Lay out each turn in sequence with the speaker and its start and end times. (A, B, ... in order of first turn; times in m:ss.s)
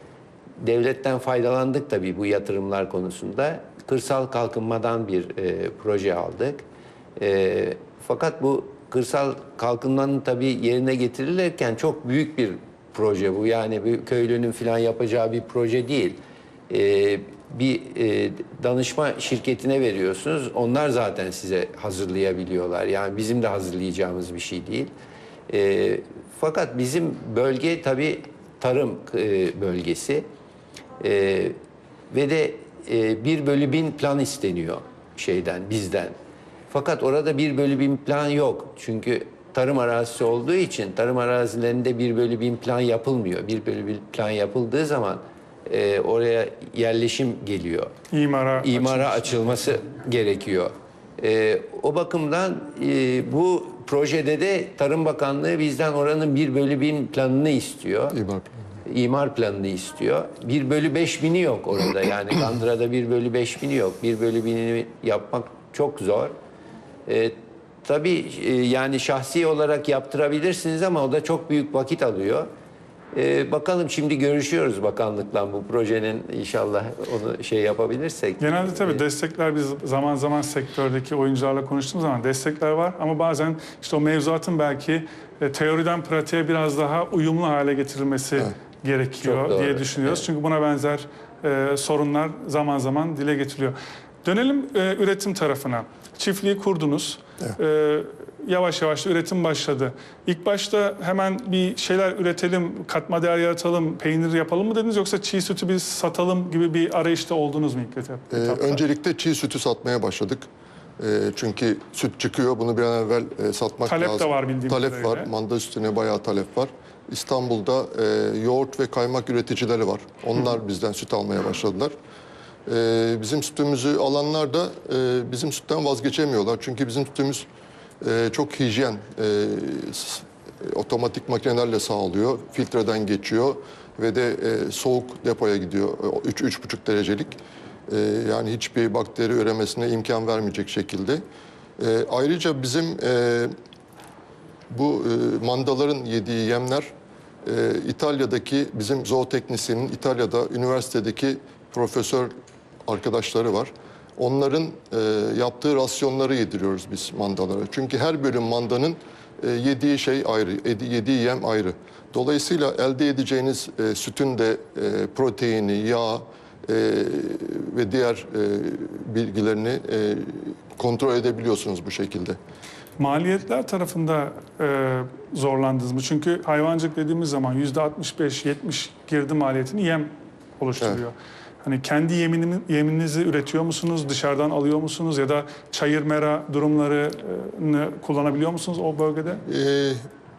0:00.6-0:06.6 A
0:07.2-0:24.9 A
0:25.5-0:30.3 A
0:31.0-0:31.6 A
0:32.1-0:36.2 A
0:36.7-0:47.9 A
0:48.1-0:49.4 B
0:48.6-0:58.2 A
0:58.1-0:58.6 C
0:58.8-1:06.3 A
1:07.1-1:12.5 A
1:13.1-1:19.0 A
1:18.4-1:48.8 B
1:29.2-1:30.2 A
1:48.3-1:50.5 C
1:51.0-2:01.9 C
1:53.9-1:55.3 B
2:02.7-2:07.5 C
2:08.0-2:17.4 C
2:17.9-2:21.2 C
2:21.8-2:23.5 C
2:24.7-2:26.9 C
2:27.4-2:32.3 C
2:32.9-2:52.4 C
2:53.0-3:09.4 B
3:09.4-3:10.0 C